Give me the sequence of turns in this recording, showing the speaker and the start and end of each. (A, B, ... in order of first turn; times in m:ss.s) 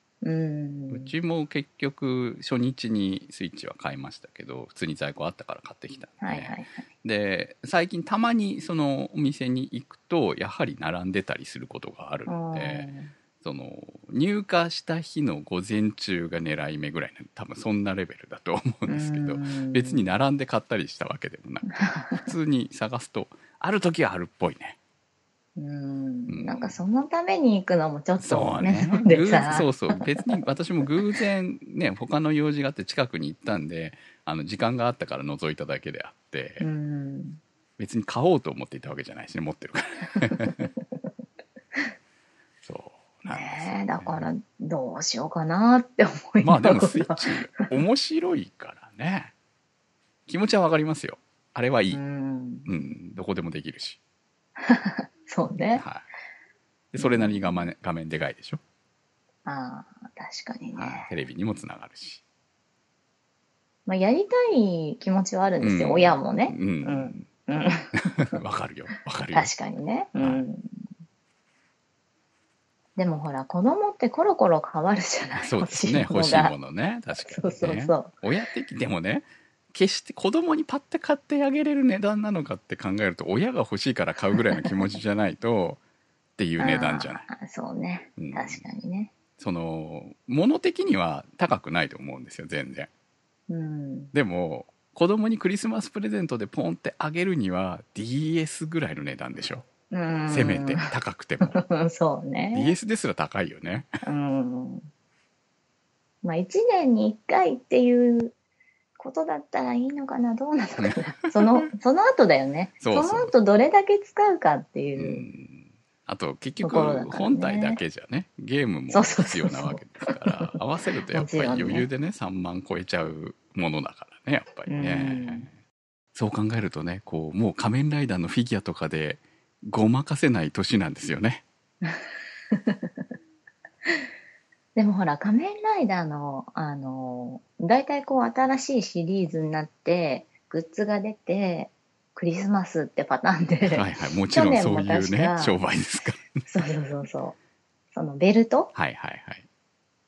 0:00.2-0:01.1 A
0:00.9-0:24.8 B
0:06.2-0:06.8 A
0:12.3-0:13.1 A
0:18.9-0:20.0 A
0:21.7-0:22.3 A
0:25.6-0:30.4 A
0:26.3-0:26.8 B
0:28.2-0:36.6 B
0:36.6-0:37.4 A
0:37.8-0:40.7 B
0:40.2-0:40.6 A
0:42.6-0:44.3 B
0:43.3-0:47.7 A
0:46.4-0:49.3 B
0:50.3-0:52.0 B
0:51.9-0:52.7 A
0:52.7-0:54.0 B
0:54.6-0:55.8 A
0:55.7-0:56.0 B
0:56.9-0:58.6 B
0:57.0-0:57.4 A
0:59.4-1:01.1 A
1:00.8-1:02.2 B
1:03.8-1:08.4 A
1:05.6-1:07.3 B
1:08.1-1:09.5 B
1:09.3-1:10.9 A
1:10.2-1:10.4 B
1:13.0-1:16.6 A
1:15.4-1:25.8 B
1:17.2-1:18.1 A
1:26.4-1:27.3 B
1:26.6-1:29.1 A
1:28.2-1:28.6 B
1:29.4-1:32.9 B
1:33.5-1:34.1 A
1:34.1-1:39.6 B
1:39.9-1:40.9 A
1:40.3-1:41.6 B
1:41.4-1:42.7 A
1:42.5-1:43.9 B
1:44.0-1:44.9 A
1:46.2-1:48.3 A
1:49.0-1:55.3 A
1:50.8-1:51.6 B
1:52.8-1:53.3 B
1:55.0-2:05.5 B
1:56.6-1:57.8 A
1:58.9-2:00.5 A
2:01.1-2:01.9 A
2:04.7-2:05.5 A
2:06.1-2:11.4 B
2:11.8-2:12.9 A
2:14.7-2:25.6 A
2:23.7-2:26.4 B
2:26.5-2:27.4 A
2:27.9-2:28.7 A
2:28.7-2:29.4 B